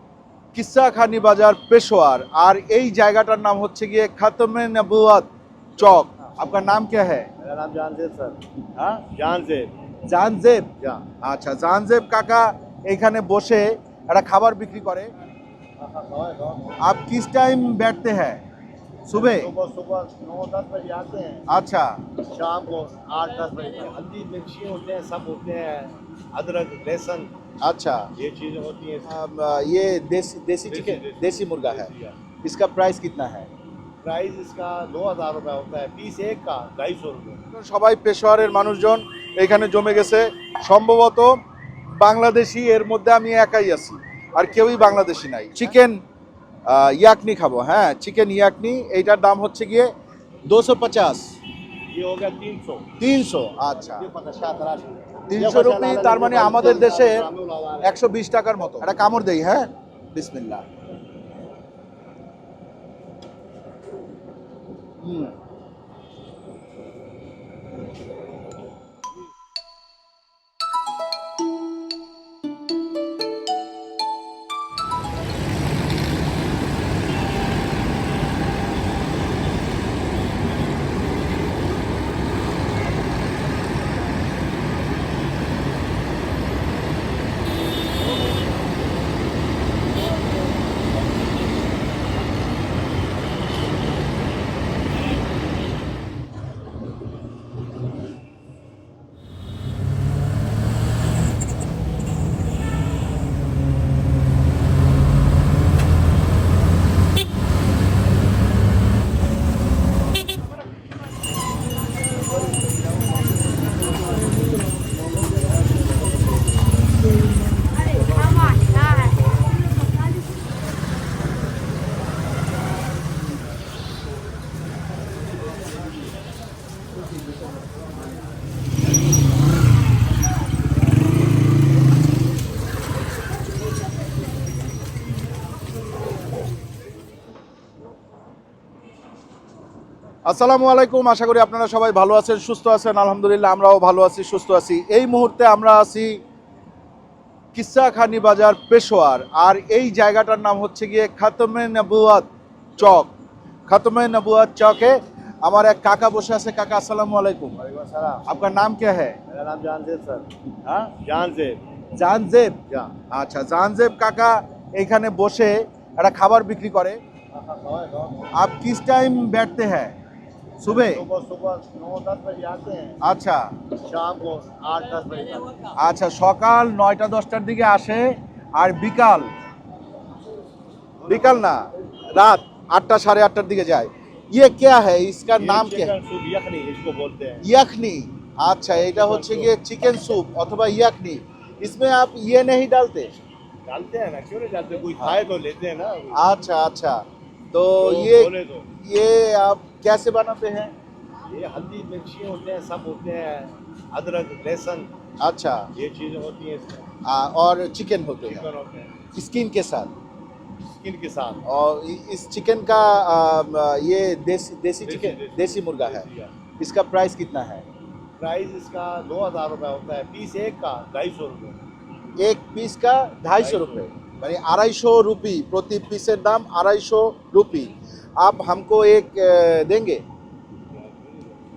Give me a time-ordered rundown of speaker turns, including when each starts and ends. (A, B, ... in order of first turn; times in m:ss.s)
0:00.5-0:07.3 A
0:07.4-0:08.4 B
0:08.7-0:09.0 A
0:09.1-0:09.7 B
0:10.0-0:10.7 A
0:10.8-0:11.1 B
0:11.2-0:15.1 A
0:15.8-0:16.8 B
0:16.8-0:18.4 A
0:19.0-0:19.5 A
0:19.1-0:21.5 B
0:21.5-0:22.1 A
0:22.2-0:27.3 B
0:27.6-0:28.1 A
0:28.2-0:29.2 B
0:29.0-0:31.9 A
0:30.7-0:32.2 B
0:32.4-0:33.5 A
0:34.0-0:37.4 B
0:37.5-0:46.0 A
0:46.6-0:49.9 A
0:50.5-0:51.4 A
0:51.9-0:52.9 B
0:53.0-0:54.0 A
0:53.7-0:58.0 B
0:55.3-0:57.3 A
0:57.8-1:00.6 A
1:05.0-1:05.3 A
2:20.2-2:26.2 A
2:27.5-2:33.1 A
2:33.7-2:37.6 A
2:37.5-2:38.4 B
2:38.2-2:39.2 A
2:39.3-2:40.3 B
2:40.6-2:40.9 A
2:41.0-2:41.6 B
2:41.9-2:47.0 A
2:42.7-2:42.9 B
2:47.3-2:48.4 B
2:48.3-2:49.9 A
2:50.6-2:51.0 A
2:50.6-2:53.0 B
2:53.0-2:53.5 A
2:53.8-2:55.7 B
2:55.7-2:59.3 A
3:01.0-3:01.5 B
3:01.1-3:05.9 A
3:05.3-3:07.4 B
3:07.4-3:13.2 A
3:08.7-3:09.5 B
3:13.7-3:16.2 B
3:16.1-3:20.7 A
3:17.8-3:18.7 B
3:21.3-3:24.9 B
3:25.2-3:25.7 A
3:25.7-3:26.9 B
3:27.0-3:28.4 A
3:28.2-3:29.0 B
3:29.1-3:29.9 A
3:30.8-3:31.4 B
3:31.4-3:36.0 A
3:34.8-3:36.3 B
3:36.6-3:37.6 A
3:38.2-3:41.6 B
3:42.2-3:50.0 A
3:43.4-3:43.9 B
3:50.8-3:51.3 B